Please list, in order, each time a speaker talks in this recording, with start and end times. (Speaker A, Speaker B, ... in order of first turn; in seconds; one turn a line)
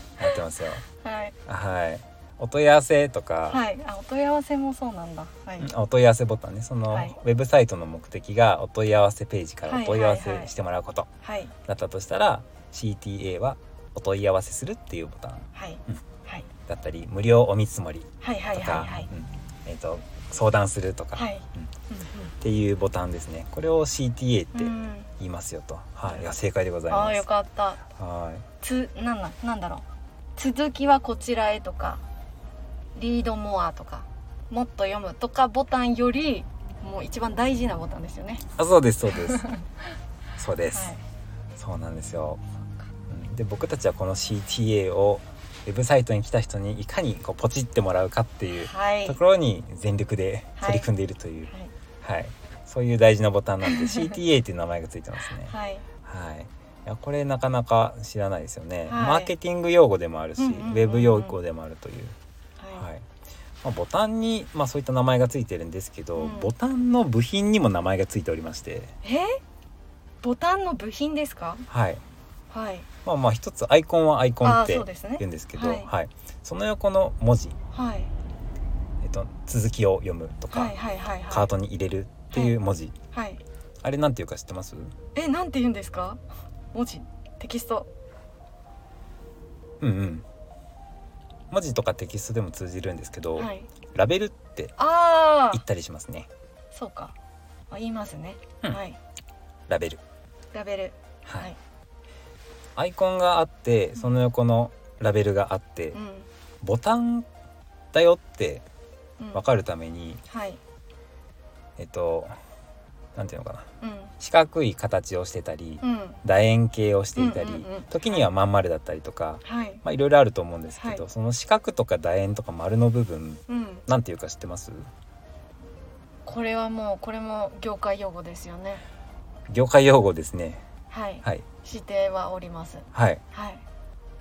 Speaker A: 0.2-0.8
Speaker B: 1.0-1.3
Speaker A: 1.5-3.6
Speaker B: 3.5-5.7
Speaker A: 5.6-11.1
Speaker B: 6.9-7.2
Speaker B: 9.7-10.5
Speaker B: 11.2-11.5
Speaker A: 11.7-15.5
Speaker B: 15.5-16.5
Speaker A: 16.7-21.7
Speaker B: 18.2-19.1
Speaker B: 21.1-22.3
Speaker A: 22.4-27.2
Speaker B: 24.5-25.1
Speaker B: 26.9-27.8
Speaker A: 28.0-28.4
Speaker B: 28.6-29.8
Speaker B: 30.4-32.0
Speaker B: 33.0-38.4
Speaker A: 38.5-39.4
Speaker B: 39.2-39.6
Speaker A: 40.4-40.9
Speaker B: 40.7-41.0
Speaker A: 41.6-42.4
Speaker A: 43.1-51.5
Speaker B: 48.6-49.2
Speaker B: 50.6-50.9
Speaker A: 52.0-55.5
Speaker B: 53.6-54.1
Speaker B: 55.4-55.8
Speaker A: 56.0-62.1
Speaker B: 58.9-59.3
Speaker B: 60.4-61.4
Speaker B: 62.6-62.9
Speaker A: 62.7-63.0
Speaker A: 63.6-68.9
Speaker B: 66.1-66.5
Speaker B: 69.0-69.4
Speaker B: 70.2-71.7
Speaker A: 71.7-72.0
Speaker B: 72.5-72.9
Speaker A: 73.0-77.5
Speaker B: 74.4-75.9
Speaker B: 77.7-78.1
Speaker A: 79.0-80.8
Speaker B: 80.5-81.5
Speaker A: 81.3-82.9
Speaker B: 83.1-83.4
Speaker A: 83.8-84.9
Speaker B: 85.1-86.2
Speaker B: 86.7-87.9
Speaker A: 89.8-90.2
Speaker A: 91.5-94.7
Speaker B: 93.3-93.7
Speaker B: 94.8-95.6
Speaker A: 95.5-96.3
Speaker B: 96.7-97.1
Speaker B: 97.7-99.0
Speaker A: 99.7-100.0
Speaker B: 100.5-101.6
Speaker A: 102.8-106.0
Speaker B: 105.9-106.3
Speaker A: 106.6-107.3
Speaker A: 107.9-108.6
Speaker A: 109.3-110.2
Speaker B: 110.3-110.6
Speaker A: 111.8-112.3
Speaker A: 113.1-113.6
Speaker B: 113.8-114.1
Speaker A: 114.2-124.9
Speaker B: 115.8-116.2
Speaker B: 117.2-118.3
Speaker B: 119.4-119.8
Speaker B: 120.8-121.0
Speaker B: 123.5-123.8
Speaker B: 126.2-128.8
Speaker A: 129.5-130.6
Speaker B: 130.9-133.6
Speaker A: 132.9-133.2